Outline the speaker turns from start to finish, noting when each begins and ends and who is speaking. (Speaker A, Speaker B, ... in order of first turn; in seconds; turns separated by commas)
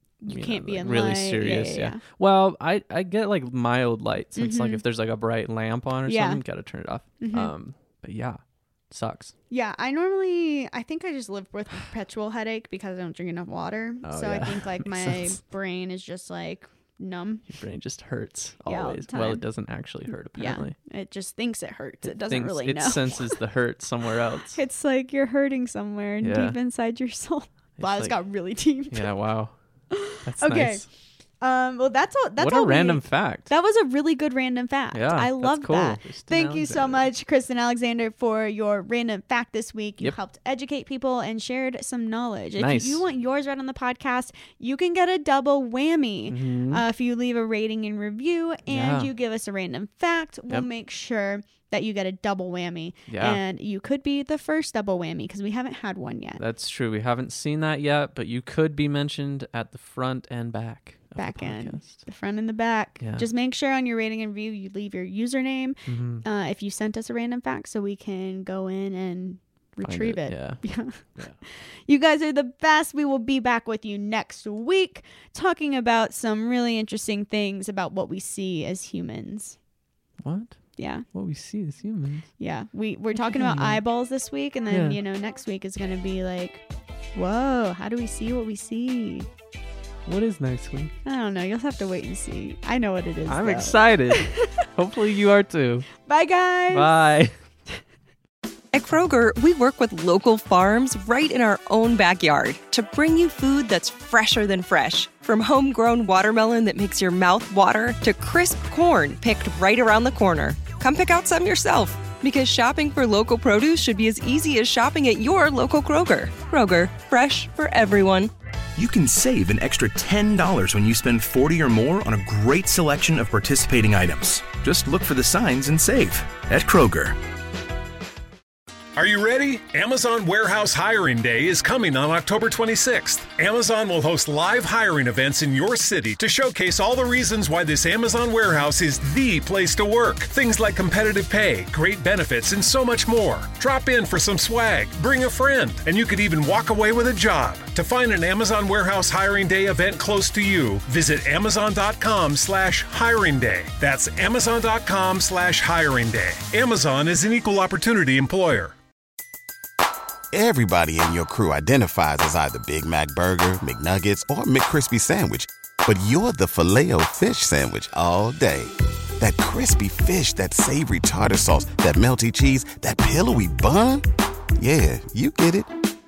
Speaker A: 0.2-2.0, Speaker B: 0.2-9.3, Speaker A: 4.3-4.8, Speaker A: 6.0-6.4, Speaker A: 7.2-7.5, Speaker A: 9.5-17.4, Speaker B: 14.0-15.4, Speaker B: 17.5-20.8, Speaker A: 18.6-19.4, Speaker A: 20.4-23.4, Speaker B: 22.0-24.6, Speaker A: 24.5-29.1, Speaker B: 26.2-26.6, Speaker B: 27.8-28.2, Speaker B: 28.9-29.5, Speaker A: 29.9-30.8, Speaker B: 30.2-30.9, Speaker A: 31.4-56.4, Speaker B: 32.4-33.5, Speaker B: 34.9-37.1, Speaker B: 42.6-43.0, Speaker B: 46.3-46.8, Speaker B: 48.7-49.1, Speaker B: 53.1-53.4, Speaker B: 56.4-62.0, Speaker A: 61.1-79.5, Speaker B: 63.0-63.3, Speaker B: 65.8-66.2, Speaker B: 69.8-70.6, Speaker B: 80.2-82.3, Speaker A: 80.8-81.0, Speaker A: 82.4-86.6, Speaker B: 83.2-83.8, Speaker B: 84.7-85.0, Speaker A: 87.1-89.3, Speaker B: 90.0-90.9, Speaker A: 91.0-94.7, Speaker B: 93.3-95.9, Speaker A: 96.0-96.9, Speaker B: 96.7-97.3, Speaker C: 98.7-118.3, Speaker D: 118.8-127.2, Speaker E: 128.9-158.7, Speaker F: 160.3-174.1, Speaker F: 174.6-175.7